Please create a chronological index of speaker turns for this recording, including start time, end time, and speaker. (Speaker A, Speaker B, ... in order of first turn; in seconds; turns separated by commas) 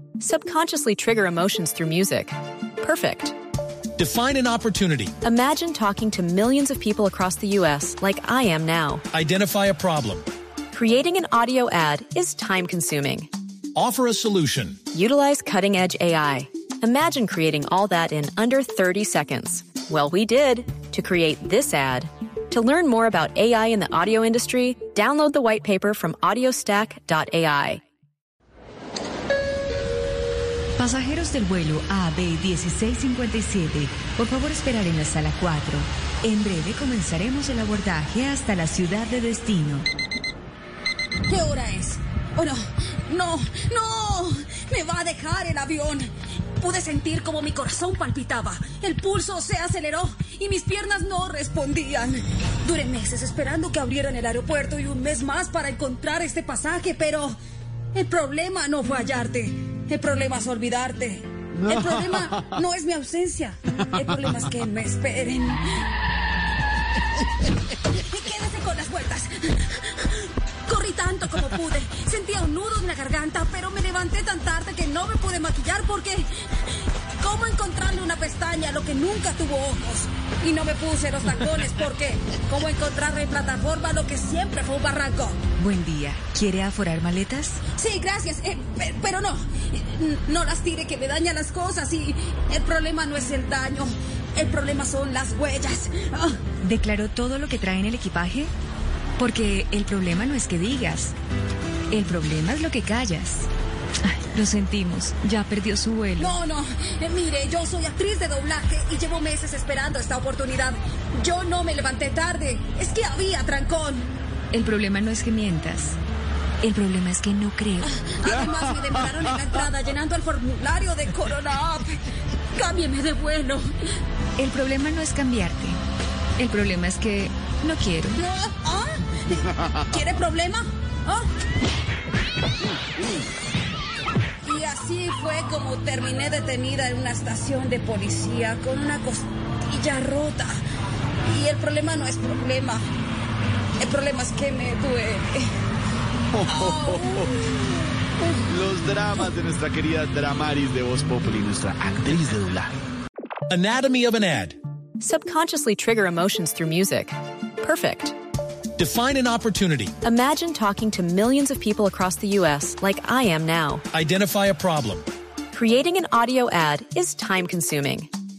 Speaker A: 0.2-3.3, Speaker B: 4.0-5.1, Speaker A: 5.2-9.0, Speaker B: 9.1-10.2, Speaker A: 10.7-13.3, Speaker B: 13.7-14.8, Speaker A: 14.9-27.8, Speaker C: 30.8-39.9, Speaker D: 41.3-57.3, Speaker D: 57.9-65.7, Speaker D: 67.9-76.3, Speaker D: 77.2-85.4, Speaker C: 85.6-87.6, Speaker D: 87.7-96.4, Speaker C: 96.6-98.5, Speaker C: 99.2-101.1, Speaker C: 101.9-103.5, Speaker C: 104.0-106.4, Speaker D: 106.2-114.1, Speaker C: 114.5-116.0, Speaker C: 116.6-118.0, Speaker D: 117.9-122.0, Speaker D: 122.5-123.6, Speaker C: 124.4-125.8, Speaker C: 126.4-128.2, Speaker D: 128.1-131.2, Speaker D: 134.4-140.6, Speaker D: 141.3-142.8, Speaker D: 143.8-145.5, Speaker E: 146.3-147.5, Speaker D: 146.5-148.3, Speaker E: 148.4-152.7, Speaker B: 153.5-154.6, Speaker A: 155.0-158.1, Speaker B: 158.8-159.9, Speaker A: 160.0-163.8, Speaker B: 163.9-165.0, Speaker A: 165.5-168.1